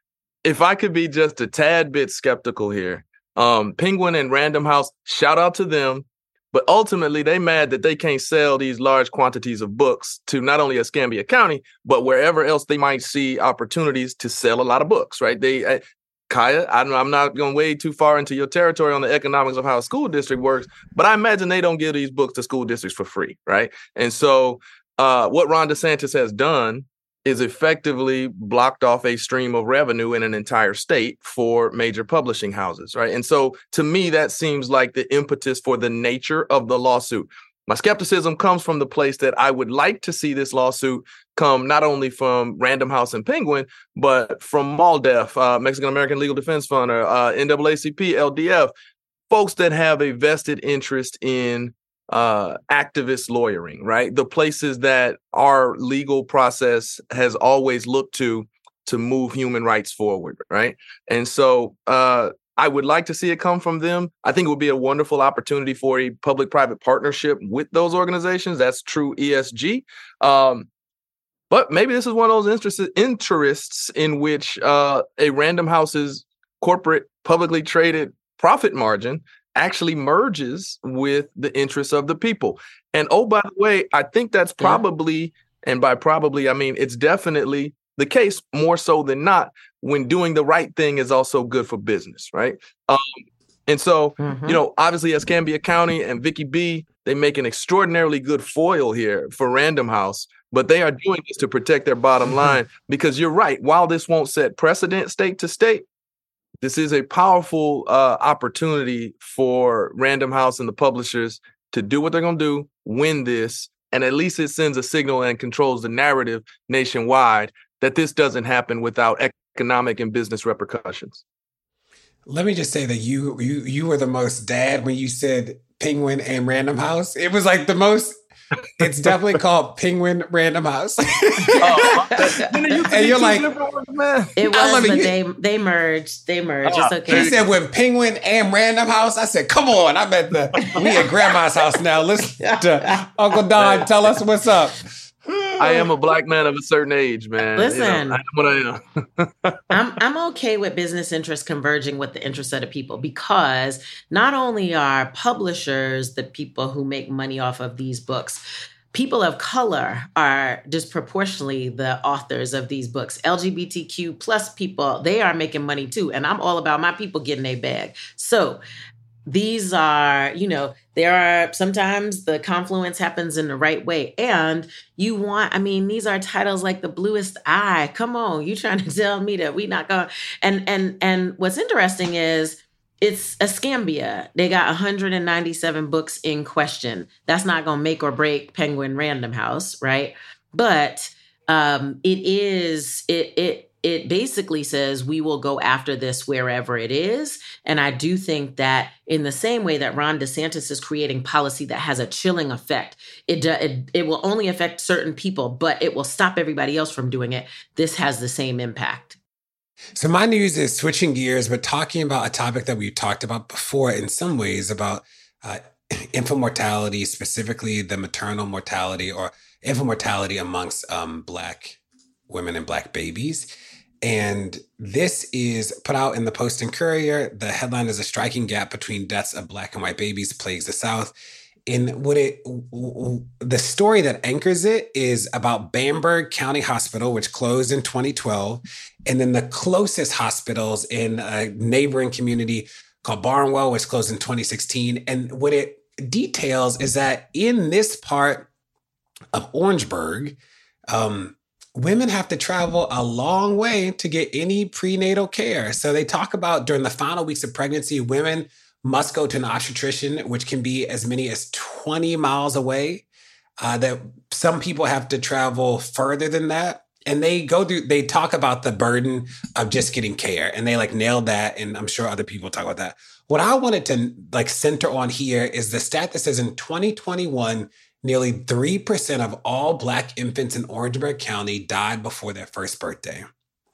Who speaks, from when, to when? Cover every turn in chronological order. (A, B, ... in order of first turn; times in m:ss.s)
0:00.4-0:48.7 A
0:49.3-1:10.7 A
1:11.5-1:45.8 A
1:34.2-1:34.6 B
1:46.6-2:01.2 A
2:02.3-2:08.2 C
2:08.8-2:12.0 C
2:11.6-2:14.4 A
2:11.8-2:12.5 B
2:12.9-2:13.4 C
2:14.4-2:17.3 B
2:14.5-2:15.1 C
2:16.6-2:17.4 A
2:17.1-2:24.8 C
2:20.6-2:21.0 B
2:22.4-2:23.8 B
2:25.5-2:25.9 B
2:25.6-2:29.6 A
2:27.6-2:28.2 B
2:29.7-2:48.6 B
2:49.2-3:29.2 B
3:30.0-3:43.4 C
3:44.0-3:51.1 C
3:51.7-4:08.5 C
4:09.3-4:10.4 C
4:10.9-4:23.0 C
4:23.6-4:43.2 C